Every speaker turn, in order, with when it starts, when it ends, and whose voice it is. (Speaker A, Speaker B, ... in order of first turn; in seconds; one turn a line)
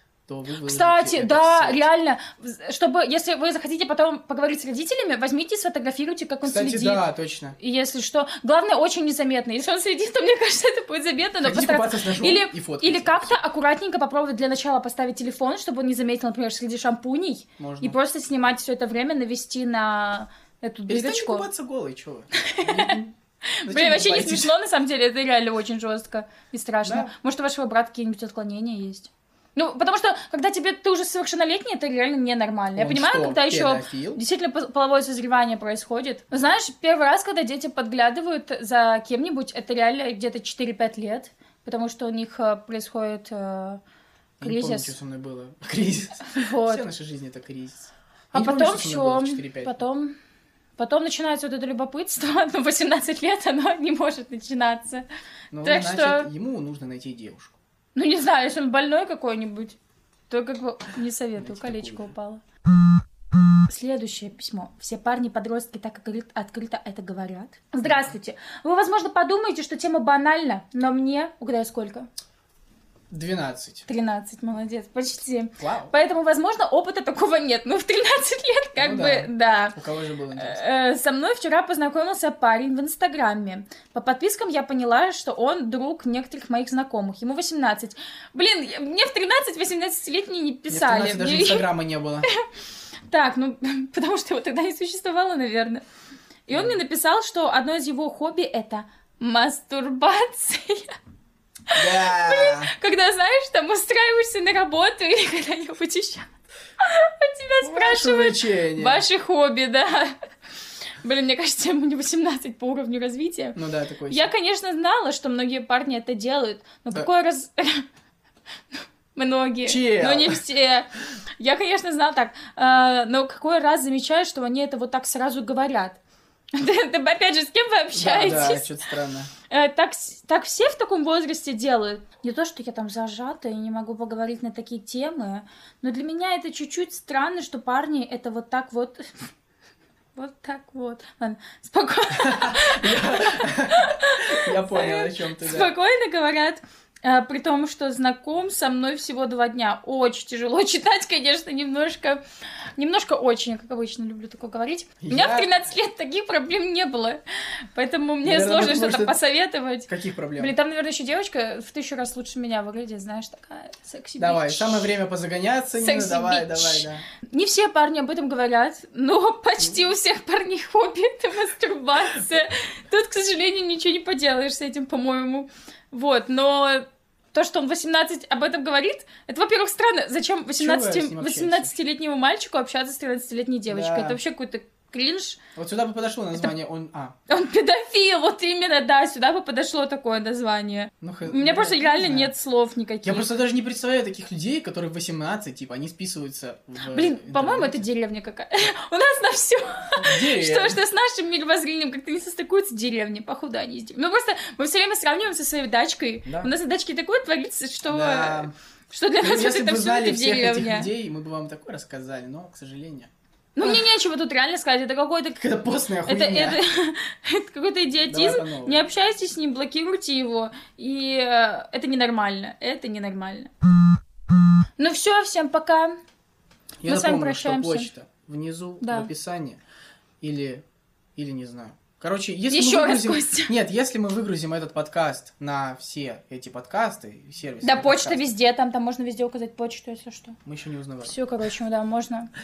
Speaker A: 0.3-1.9
Speaker B: 0.6-21.5
Speaker A: 6.4-7.5
Speaker A: 11.4-13.3
Speaker A: 17.6-17.9
Speaker A: 20.9-24.5
Speaker B: 22.3-23.0
Speaker B: 23.6-43.8
Speaker A: 26.8-27.1
Speaker A: 32.8-34.2
Speaker A: 44.4-49.8
Speaker B: 44.4-45.0
Speaker B: 46.2-46.8
Speaker B: 48.3-50.1
Speaker B: 50.8-55.0
Speaker A: 55.5-57.5
Speaker B: 55.6-56.3
Speaker B: 57.9-59.8
Speaker B: 60.3-62.4
Speaker A: 61.4-62.1
Speaker B: 63.6-72.1
Speaker A: 67.8-68.1
Speaker A: 73.1-73.8
Speaker B: 73.9-79.8
Speaker A: 75.6-75.9
Speaker A: 78.8-80.6
Speaker B: 80.3-91.7
Speaker A: 90.7-92.2
Speaker B: 93.1-95.8
Speaker B: 96.5-101.0
Speaker B: 101.7-106.3
Speaker A: 101.7-102.7
Speaker B: 106.8-110.1
Speaker A: 107.6-109.0
Speaker B: 111.0-113.6
Speaker A: 113.5-114.3
Speaker B: 114.1-117.8
Speaker B: 119.1-126.0
Speaker A: 119.6-120.4
Speaker B: 126.5-128.8
Speaker A: 127.9-129.3
Speaker B: 129.5-139.2
Speaker B: 140.1-152.2
Speaker A: 142.2-145.7
Speaker B: 152.8-164.9
Speaker A: 155.0-155.5
Speaker A: 158.2-159.2
Speaker A: 159.9-160.5
Speaker A: 164.2-167.0
Speaker B: 165.7-185.4
Speaker A: 180.6-181.7
Speaker A: 183.7-184.2
Speaker A: 185.6-187.1
Speaker B: 187.3-193.3
Speaker A: 191.0-192.3
Speaker A: 193.0-197.8
Speaker B: 196.9-210.9
Speaker A: 200.0-200.8
Speaker A: 206.2-206.5
Speaker A: 207.9-208.5
Speaker A: 209.2-213.1
Speaker B: 213.6-215.4
Speaker A: 215.3-216.6
Speaker B: 216.0-223.5
Speaker A: 218.1-218.8
Speaker B: 224.8-226.0
Speaker A: 226.8-229.6
Speaker B: 226.9-227.9
Speaker B: 228.8-229.1
Speaker A: 230.2-230.6
Speaker A: 231.2-238.3
Speaker B: 232.5-233.5
Speaker B: 237.6-240.4
Speaker A: 240.4-241.2
Speaker B: 241.0-242.3